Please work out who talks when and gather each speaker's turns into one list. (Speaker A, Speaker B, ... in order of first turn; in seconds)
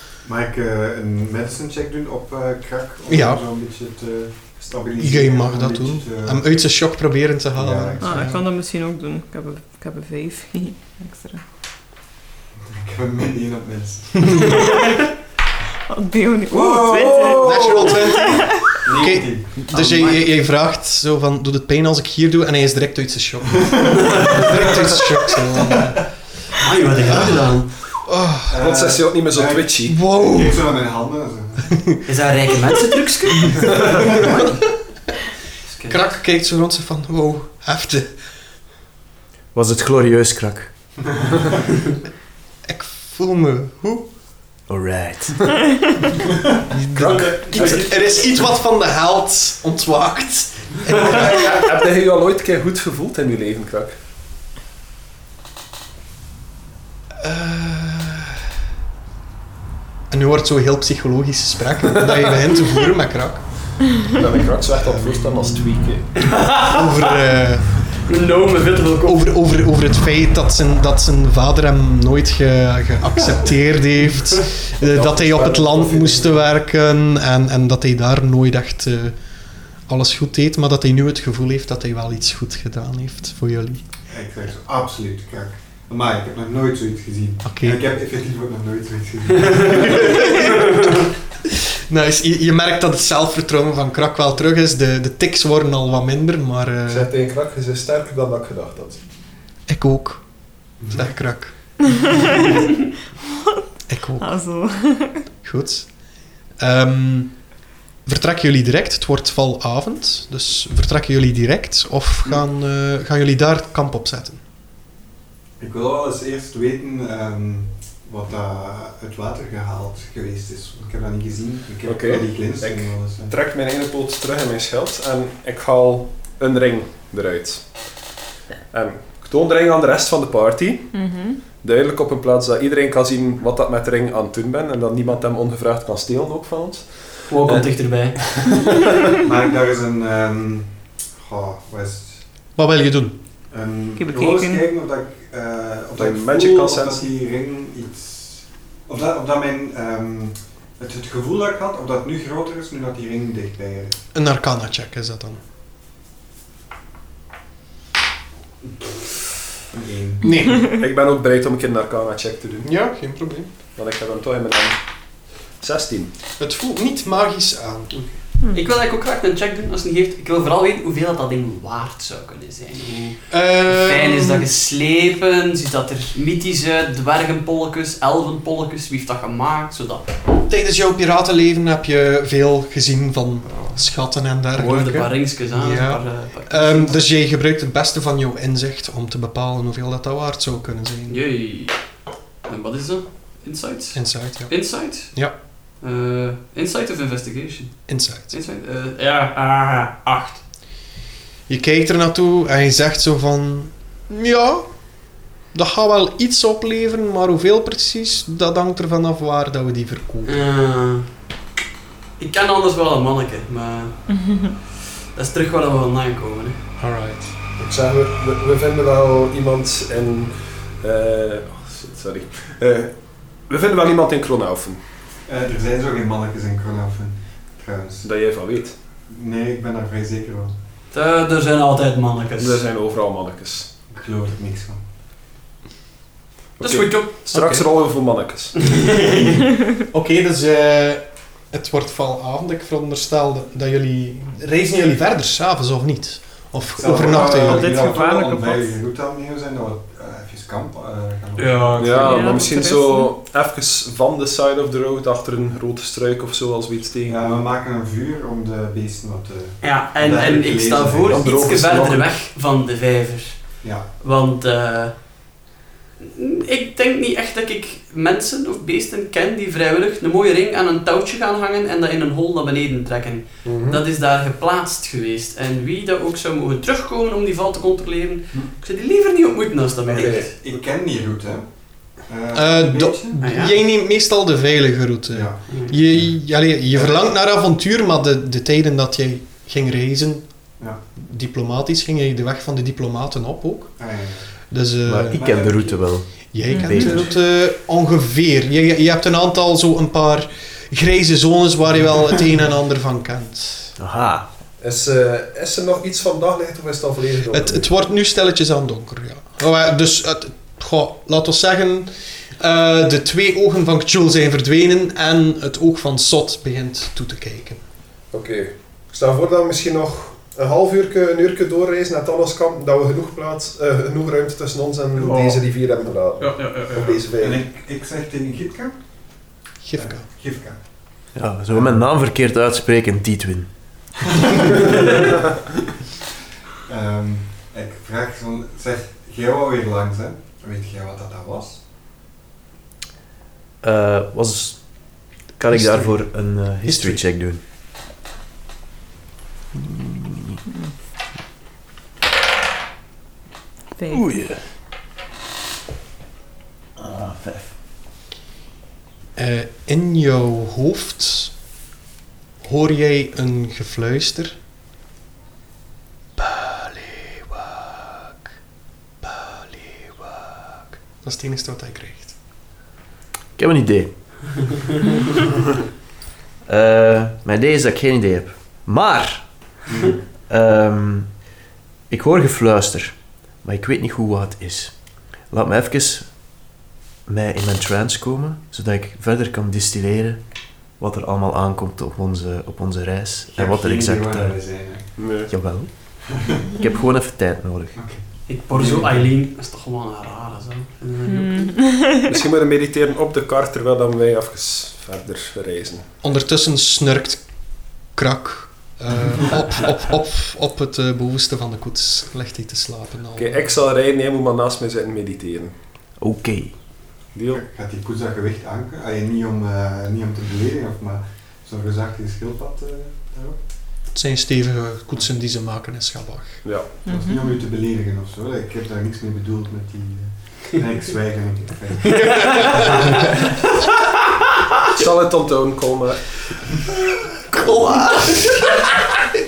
Speaker A: 0.2-6.4, 7.5-8.3, 12.7-14.5, 16.7-17.2, 18.8-19.5, 23.6-24.3, 28.5-31.7, 64.7-65.6, 84.1-90.4, 100.8-101.0, 115.6-123.3, 139.2-142.2, 143.5-154.0, 159.7-160.5, 225.3-228.1, 229.1-230.6, 233.9-234.8, 246.8-252.0, 257.1-261.2, 280.0-281.4, 282.0-283.2, 285.1-285.4, 286.7-287.0, 293.8-294.3, 295.1-296.0, 327.1-328.8, 329.8-330.6, 331.5-331.8, 334.2-334.7, 336.6-341.6, 379.7-380.0, 393.3-394.9, 397.8-398.0, 398.5-398.9, 417.3-423.4, 426.9-433.1
Speaker B: 3.1-3.4, 5.0-8.4, 17.4-26.1, 27.0-27.5, 28.0-28.5, 29.9-30.6, 31.7-32.0, 34.2-34.5, 35.9-38.1, 42.7-44.1, 46.7-51.5, 57.2-58.4, 60.1-63.4, 66.6-67.8, 69.0-79.2, 79.9-83.8, 87.4-87.8, 89.9-90.8, 91.9-97.1, 99.7-100.3, 100.8-101.5, 103.9-104.4, 105.4-105.9, 106.6-107.5, 108.0-114.4, 142.6-143.2, 154.1-155.4, 160.2-160.6, 162.6-163.5, 166.4-168.1, 173.3-174.4, 180.5-191.2, 193.9-195.3, 197.9-198.3, 201.5-204.7, 205.5-210.4, 216.8-217.3, 239.9-247.7, 282.3-290.3, 290.9-293.7, 294.5-295.2, 296.3-303.7, 307.3-317.6, 329.6-330.1, 345.5-347.0, 359.2-361.3, 362.4-364.4, 366.2-368.1, 369.0-372.1, 406.0-407.2, 407.9-413.5, 423.9-426.4, 432.1-432.8, 437.2-438.9
Speaker C: 8.0-11.4, 15.9-18.7, 104.2-105.2, 130.9-131.3, 144.0-144.7, 168.4-168.7, 214.1-214.5, 246.9-248.7, 252.0-253.1, 296.5-297.1, 353.8-354.1, 401.1-402.1, 426.8-427.2
Speaker D: 16.5-18.0, 28.5-30.0, 46.9-47.9, 50.9-53.9, 62.0-62.2, 64.1-66.1, 74.8-76.4, 96.9-99.0, 121.8-127.7, 128.7-130.9, 131.6-138.8, 146.0-147.0, 160.7-162.7, 163.7-164.8, 165.6-166.1, 172.9-173.1, 217.6-223.0, 223.5-224.8, 228.0-228.7, 232.4-233.7, 236.6-238.6, 251.8-257.3, 261.1-262.1, 273.4-273.8, 279.9-280.3, 304.6-307.7, 318.1-327.4, 395.0-395.3, 402.1-405.8, 413.1-415.5, 417.1-417.4, 426.4-426.8, 434.7-436.3
Speaker E: 19.7-20.3, 24.0-24.7, 26.6-27.7, 32.0-34.4, 35.6-36.1, 47.5-48.1, 66.2-67.1, 68.0-69.3, 90.3-90.9, 137.3-138.4, 168.5-180.1, 184.5-187.0, 191.1-191.8, 192.4-195.2, 195.8-200.4, 210.2-211.1, 212.2-214.0, 214.8-216.6, 230.9-232.6, 236.6-237.6, 238.6-239.4, 251.4-252.5, 259.6-265.0, 266.0-280.3, 283.2-283.5, 285.5-285.7, 325.0-325.4, 326.2-327.0, 398.3-401.6, 432.1-432.8
Speaker F: 39.5-40.7, 44.7-45.4, 294.9-297.1, 303.8-304.3, 331.1-333.5, 343.6-347.4, 350.0-350.4, 353.9-354.4, 356.8-357.5, 373.4-373.9, 376.4-379.7, 380.3-381.2, 381.9-386.5, 387.1-394.4, 395.3-397.8, 416.0-416.6